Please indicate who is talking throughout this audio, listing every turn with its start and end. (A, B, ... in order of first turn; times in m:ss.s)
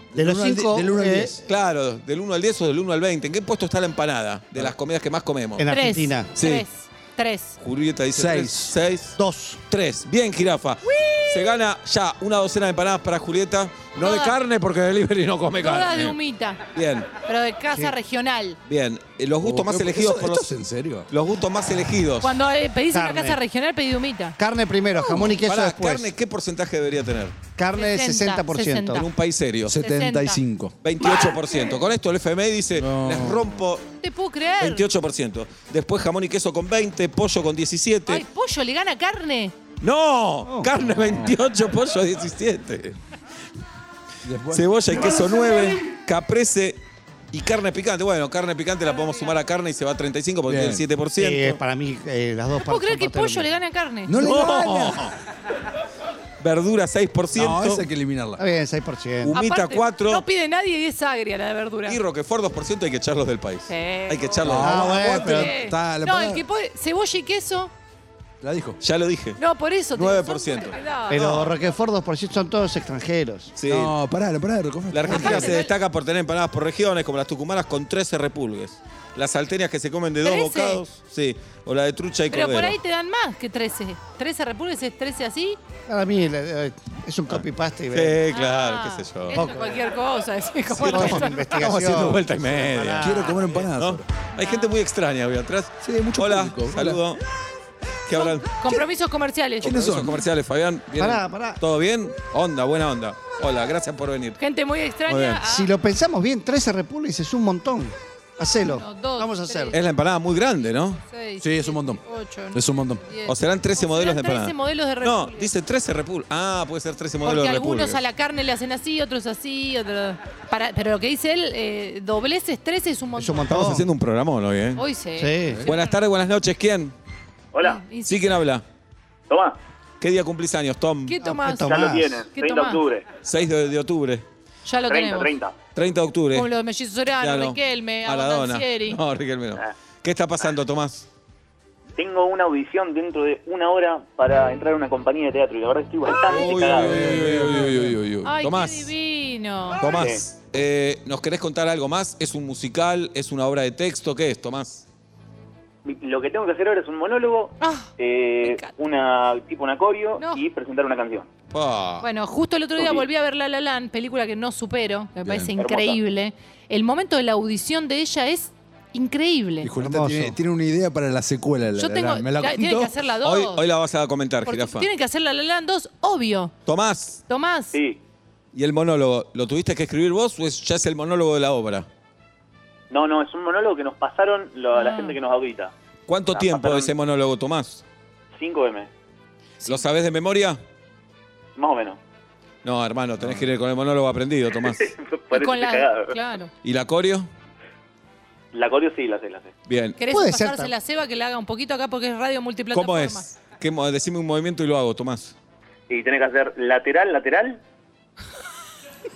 0:00.1-0:01.4 A
0:00.2-0:01.4 B
0:01.5-0:05.7 C
0:05.6-0:06.3 B
0:05.7-0:07.6 D
0:06.4-0:06.6 C
0:07.6-0:09.2 C
0:08.2-0:08.7 A
0:09.2-0:09.6 B
0:09.7-0:16.2 C
0:10.8-0:11.6 D
0:14.0-0:14.3 D
0:15.6-0:16.6 D
0:16.7-0:17.1 C
0:17.2-0:18.6 D
0:18.7-0:20.5 C
0:19.4-0:21.1 A
0:21.1-0:22.3 C
0:22.2-0:24.4 D
0:22.9-0:23.4 B
0:24.4-0:26.1 B
0:25.4-0:27.4 C
0:27.6-0:29.0 B
0:27.8-0:29.1 D
0:29.0-0:29.8 C
0:29.7-0:30.7 A
0:29.8-0:30.4 D
0:30.8-0:33.8 C
0:32.8-0:33.5 A
0:34.0-0:34.8 D
0:34.6-0:38.2 C
0:38.1-0:39.6 D
0:39.8-0:43.0 C
0:41.0-0:41.3 A
0:44.2-0:45.6 A
0:44.5-0:46.8 C
0:47.3-0:51.6 C
0:49.0-0:49.3 D
0:50.5-0:50.8 A
0:51.2-0:53.5 B
0:52.6-0:54.1 D
0:54.1-0:55.0 A
0:54.2-0:55.1 C
0:56.4-0:57.9 C
0:57.4-0:58.4 A
0:58.4-0:59.4 B
0:59.2-1:00.2 C
0:59.3-1:02.0 D
1:01.9-1:05.2 C
1:03.7-1:07.7 D
1:04.4-1:06.4 A
1:04.6-1:05.5 B
1:08.4-1:08.8 A
1:08.8-1:09.4 C
1:09.4-1:11.2 D
1:10.0-1:11.5 C
1:11.1-1:13.5 B
1:13.6-1:14.0 C
1:13.7-1:15.6 A
1:14.9-1:22.8 C
1:15.1-1:15.7 D
1:20.2-1:20.8 D
1:22.3-1:25.6 D
1:25.9-1:28.2 B
1:27.3-1:29.4 C
1:28.3-1:31.5 D
1:29.3-1:29.8 B
1:30.8-1:33.6 B
1:30.8-1:37.2 C
1:33.0-1:34.1 A
1:34.4-1:34.8 D
1:35.8-1:37.0 A
1:38.1-1:38.5 C
1:38.2-1:39.8 D
1:39.6-1:40.2 A
1:39.6-1:44.4 C
1:41.0-1:41.6 B
1:44.4-1:45.7 D
1:45.1-1:45.4 C
1:45.5-1:49.8 B
1:48.6-1:49.8 D
1:49.7-1:51.0 C
1:51.1-1:55.5 D
1:51.4-1:52.0 A
1:52.5-1:53.0 A
1:53.3-1:58.0 C
1:57.2-2:03.5 D
2:03.2-2:03.9 B
2:03.5-2:04.8 C
2:04.8-2:05.9 D
2:05.2-2:05.6 B
2:05.7-2:06.9 C
2:07.5-2:07.8 E
2:07.6-2:08.3 D
2:08.0-2:08.6 C
2:09.3-2:09.6 E
2:10.0-2:11.2 C
2:11.1-2:12.8 D
2:11.2-2:12.2 B
2:11.7-2:13.1 E
2:13.2-2:14.2 C
2:14.7-2:15.3 D
2:14.9-2:15.6 E
2:15.8-2:16.5 C
2:16.3-2:19.0 D
2:17.2-2:21.1 C
2:22.0-2:27.0 E
2:26.3-2:28.9 C
2:26.4-2:28.0 A
2:28.2-2:29.8 D
2:29.8-2:34.8 C
2:29.8-2:30.2 E
2:35.8-2:41.3 E
2:37.6-2:37.9 D
2:38.4-2:38.7 D
2:41.5-2:42.1 C
2:42.0-2:49.7 D
2:42.8-2:43.0 E
2:45.2-2:45.5 A
2:45.6-2:46.0 E
2:49.6-2:52.9 A
2:49.8-2:50.4 B
2:51.8-2:53.6 D
2:53.2-2:54.9 C
2:54.5-2:56.5 D
2:56.7-2:57.2 C
2:57.3-2:57.8 D
2:57.7-2:58.0 E
2:58.5-3:01.9 C
3:02.9-3:05.7 E
3:04.7-3:05.2 D
3:06.1-3:07.8 C
3:06.3-3:06.9 E
3:08.4-3:08.9 E
3:09.7-3:10.6 C
3:11.6-3:12.0 E
3:12.6-3:14.9 C
3:13.2-3:13.5 A
3:14.5-3:16.1 E
3:15.3-3:16.5 D
3:16.6-3:17.3 C
3:18.5-3:19.5 E
3:19.7-3:20.0 C
3:20.0-3:23.3 D
3:20.1-3:20.7 B
3:22.7-3:25.3 C
3:25.9-3:27.6 E